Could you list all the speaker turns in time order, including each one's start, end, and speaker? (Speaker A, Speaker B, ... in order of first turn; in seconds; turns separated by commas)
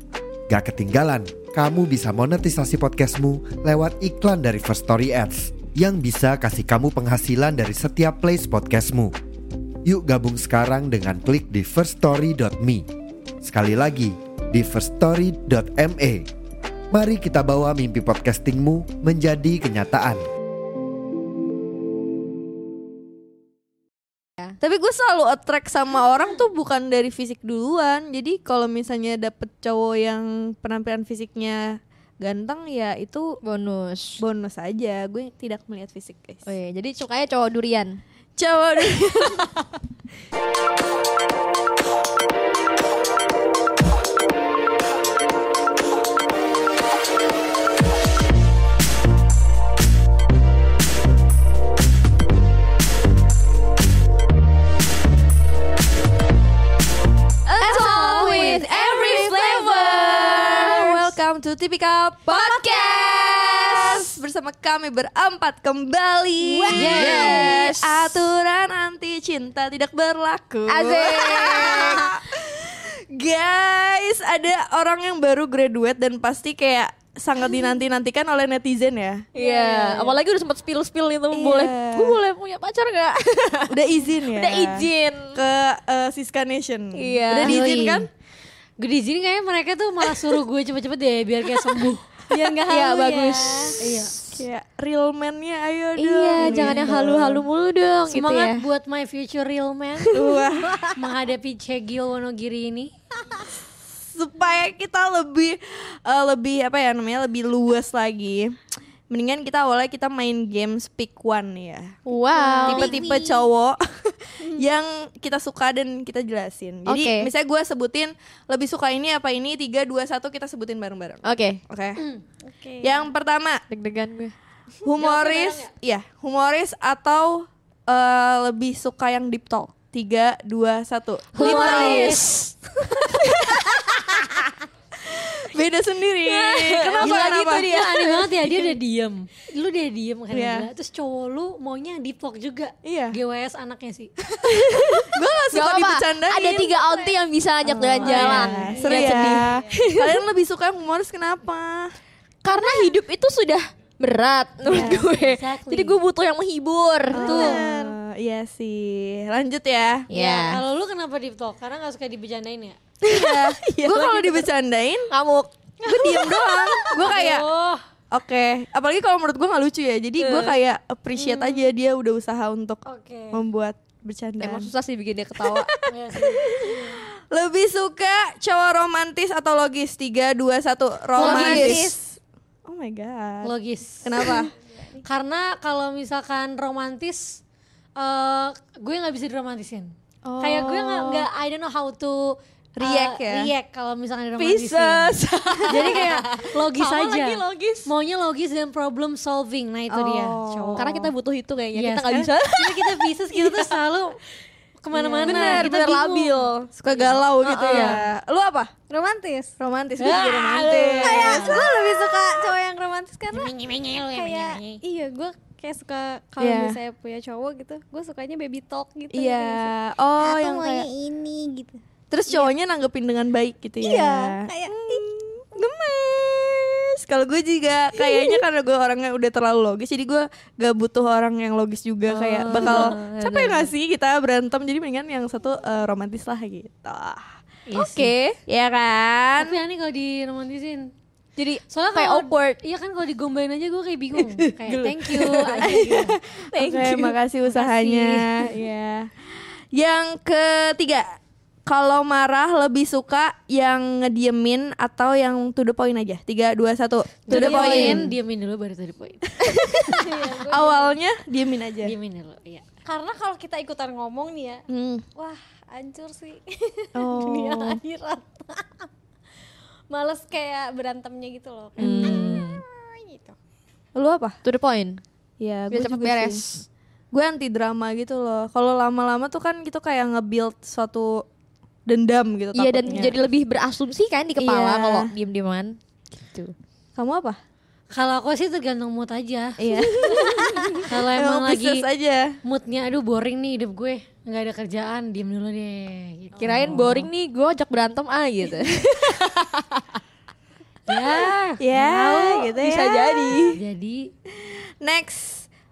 Speaker A: 0.5-9.2, Speaker A: 9.8-12.9, Speaker A: 13.4-16.3, Speaker A: 16.9-20.2, Speaker B: 24.6-33.4, Speaker C: 33.4-34.2, Speaker B: 34.2-36.5, Speaker C: 36.5-38.0, Speaker B: 38.4-39.5, Speaker C: 57.5-61.2, Speaker B: 57.6-80.2, Speaker C: 62.3-64.2, Speaker C: 66.4-68.3, Speaker D: 66.7-67.6, Speaker C: 70.7-72.1, Speaker C: 79.3-85.4, Speaker B: 81.3-82.2, Speaker B: 83.7-88.1, Speaker C: 87.0-87.6, Speaker D: 87.4-88.1, Speaker D: 88.8-92.1, Speaker E: 92.3-93.8, Speaker C: 92.7-94.4, Speaker D: 93.8-94.2, Speaker B: 94.3-97.4, Speaker C: 96.0-98.7, Speaker D: 96.4-97.1, Speaker D: 98.1-100.2, Speaker B: 100.1-100.9, Speaker D: 100.9-102.9, Speaker B: 104.1-108.6, Speaker B: 109.1-112.0, Speaker C: 112.1-113.4, Speaker E: 112.3-113.2, Speaker D: 112.7-113.0, Speaker B: 112.7-122.0, Speaker C: 116.9-117.3, Speaker C: 121.2-121.6, Speaker D: 122.0-122.2, Speaker E: 122.5-123.1, Speaker B: 122.8-123.6, Speaker C: 123.7-124.3, Speaker B: 124.8-132.2, Speaker D: 125.0-125.7, Speaker C: 131.3-133.3, Speaker D: 131.4-132.4, Speaker B: 133.2-133.7, Speaker B: 135.1-137.7, Speaker C: 136.2-138.3, Speaker D: 137.0-144.1, Speaker B: 140.3-140.7, Speaker B: 142.8-143.2, Speaker B: 144.4-146.8, Speaker C: 144.5-150.2, Speaker B: 147.6-151.9, Speaker D: 148.0-149.5, Speaker C: 152.4-157.5, Speaker B: 154.7-155.0, Speaker D: 154.7-156.0, Speaker B: 157.1-160.1, Speaker E: 157.2-157.9, Speaker D: 157.2-157.7, Speaker C: 160.1-160.6, Speaker D: 160.1-162.8, Speaker B: 163.0-165.1, Speaker C: 163.9-164.2, Speaker C: 165.1-165.5, Speaker E: 165.8-167.1, Speaker B: 165.8-167.5, Speaker D: 167.0-167.8, Speaker B: 168.1-174.7, Speaker C: 170.2-170.6, Speaker E: 171.2-171.6, Speaker D: 172.9-173.4, Speaker C: 174.4-175.7, Speaker B: 175.4-183.5, Speaker D: 175.9-176.8, Speaker D: 181.2-181.9, Speaker C: 181.2-181.9, Speaker E: 181.2-181.6, Speaker D: 183.4-184.5, Speaker B: 184.0-184.5, Speaker E: 184.5-185.0, Speaker D: 185.1-187.4, Speaker D: 188.0-195.1, Speaker B: 190.2-191.3, Speaker B: 192.8-193.5, Speaker C: 194.4-197.9, Speaker D: 195.7-201.0, Speaker B: 199.9-201.1, Speaker C: 200.8-203.4, Speaker D: 201.8-204.2, Speaker D: 204.8-208.0, Speaker B: 204.9-205.7, Speaker C: 205.2-206.7, Speaker B: 206.8-208.7, Speaker C: 207.7-207.9, Speaker E: 208.9-209.6, Speaker B: 209.6-211.7, Speaker D: 210.0-211.8, Speaker E: 211.0-213.5, Speaker D: 213.3-214.8, Speaker E: 214.1-222.5, Speaker B: 216.4-216.8, Speaker B: 219.1-220.9, Speaker B: 222.1-237.3, Speaker E: 223.8-225.0, Speaker C: 232.1-233.7, Speaker D: 232.6-233.0, Speaker D: 237.7-238.1, Speaker C: 237.8-238.4, Speaker B: 238.5-239.6, Speaker D: 239.4-240.9, Speaker C: 241.4-242.6, Speaker D: 241.7-248.5, Speaker B: 244.8-258.1, Speaker C: 245.4-245.9, Speaker C: 246.6-247.0, Speaker D: 257.3-259.2, Speaker E: 257.3-258.0, Speaker C: 257.6-257.9, Speaker B: 259.4-261.9, Speaker E: 259.7-261.0, Speaker D: 261.8-262.6, Speaker E: 262.9-264.6, Speaker E: 265.2-268.9, Speaker B: 267.0-267.8, Speaker E: 269.9-273.4, Speaker B: 271.8-272.4, Speaker C: 271.8-272.6, Speaker B: 273.9-274.4, Speaker C: 274.4-275.0, Speaker B: 275.4-276.4, Speaker C: 275.7-276.7, Speaker B: 277.1-281.2, Speaker B: 281.9-283.2, Speaker C: 282.5-285.8, Speaker B: 284.4-285.1, Speaker B: 287.0-287.4, Speaker D: 287.9-289.6, Speaker B: 289.6-292.4, Speaker E: 289.8-290.8, Speaker D: 290.9-291.9, Speaker D: 292.4-297.1, Speaker C: 296.4-299.8, Speaker B: 296.4-296.8, Speaker D: 300.9-302.5, Speaker B: 301.6-303.6, Speaker C: 302.6-303.6, Speaker D: 303.5-304.1, Speaker B: 304.3-305.5